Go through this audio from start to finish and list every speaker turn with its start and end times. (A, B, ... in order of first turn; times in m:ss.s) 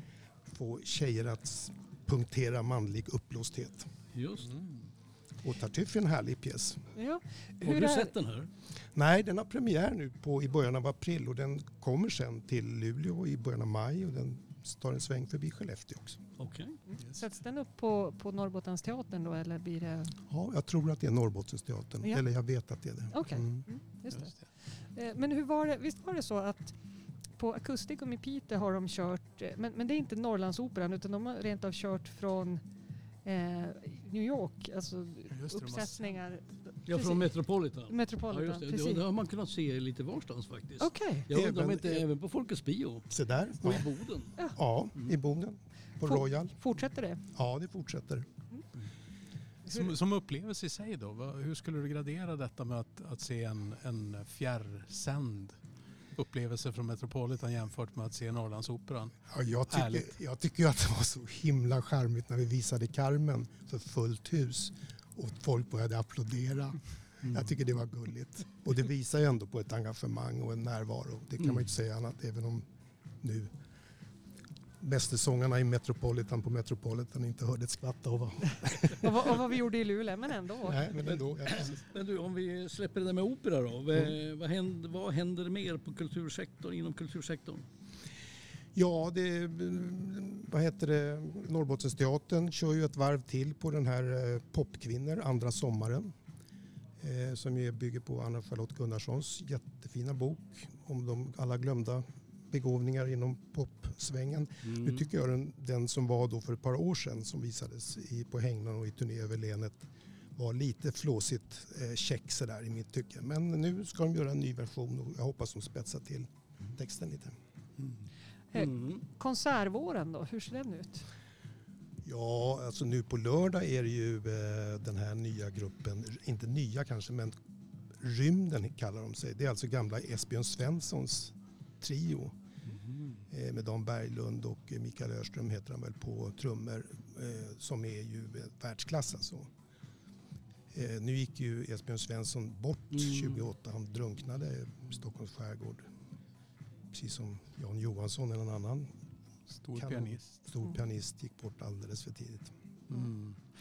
0:00.5-0:03.9 A
0:04.2-0:04.5 B
0:04.5-0:04.9 C
0:05.4-0:06.8 A
0:07.0-0:08.1 D
0:07.6-0:08.5 B
0:08.9-0:16.2 A
0:16.4-0:16.8 B
0:16.9-0:20.2 D
0:20.3-0:23.7 A
0:23.1-0:24.4 D
0:24.1-0:24.4 C
0:24.9-0:26.8 D
0:27.4-0:32.6 D
0:33.2-0:37.3 D
0:35.3-0:36.2 C
0:36.9-0:44.4 B
0:37.8-0:39.0 D
0:40.8-0:41.3 D
0:41.3-0:42.1 A
0:43.1-0:43.9 A
0:44.6-0:46.6 A
0:46.0-0:47.2 D
0:47.3-0:48.3 A
0:49.7-0:55.6 C
0:56.2-1:00.2 C
0:59.3-1:12.6 A
1:13.2-1:13.5 A
1:14.8-1:19.3 A
1:19.0-1:20.9 D
1:20.6-1:21.8 A
1:21.1-1:27.6 B
1:28.8-1:36.1 A
1:37.0-1:57.4 A
1:44.6-1:45.1 B
1:58.5-2:01.1 D
1:58.6-1:59.0 B
2:02.0-2:07.4 A
2:08.0-2:12.3 A
2:12.7-2:13.2 B
2:13.3-2:19.5 A
2:20.7-2:25.8 A
2:22.9-2:23.3 B
2:26.9-2:28.9 A
2:29.5-2:30.4 C
2:29.8-2:32.5 A
2:32.9-2:33.4 C